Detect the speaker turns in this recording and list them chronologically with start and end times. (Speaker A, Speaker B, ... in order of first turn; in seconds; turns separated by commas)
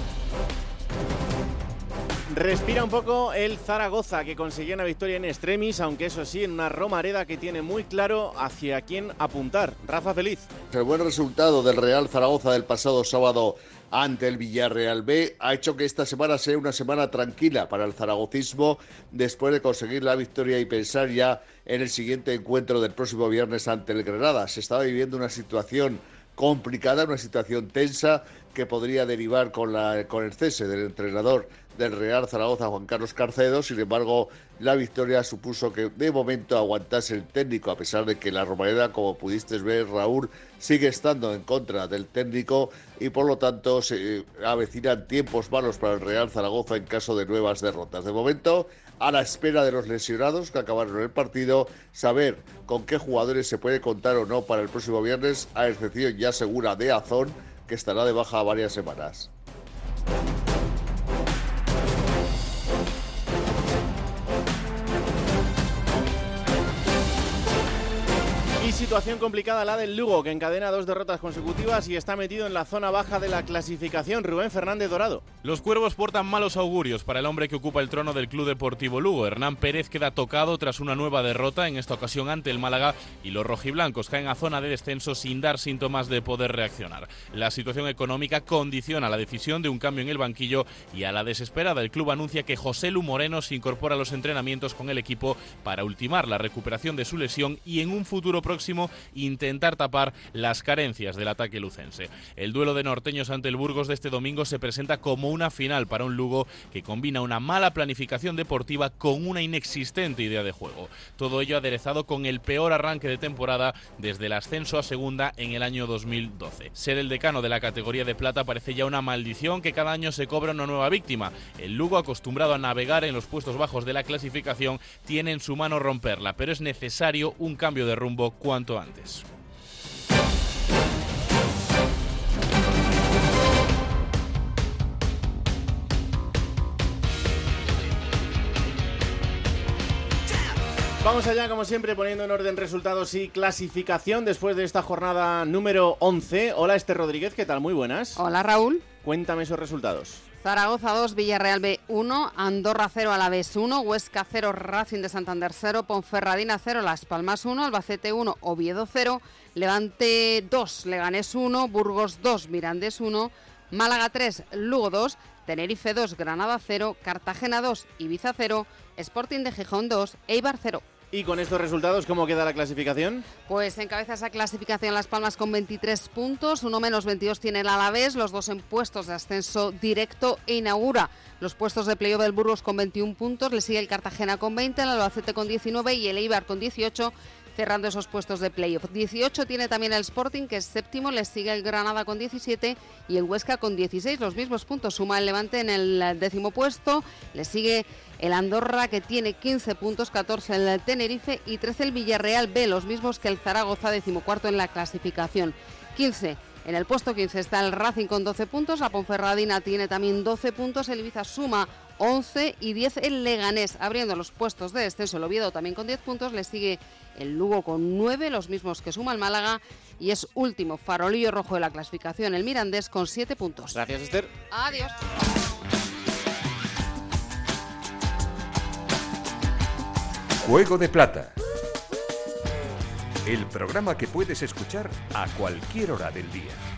Speaker A: 2.3-10.5, Speaker B: 10.7-59.3, Speaker A: 68.6-75.2, Speaker C: 75.4-129.2, Speaker A: 141.0-148.2, Speaker D: 148.2-148.8, Speaker A: 149.0-150.2, Speaker D: 150.4-170.8, Speaker A: 171.1-173.3, Speaker D: 173.5-223.8, Speaker A: 223.7-224.3, Speaker D: 224.5-224.9, Speaker E: 230.4-231.3, Speaker E: 233.2-236.6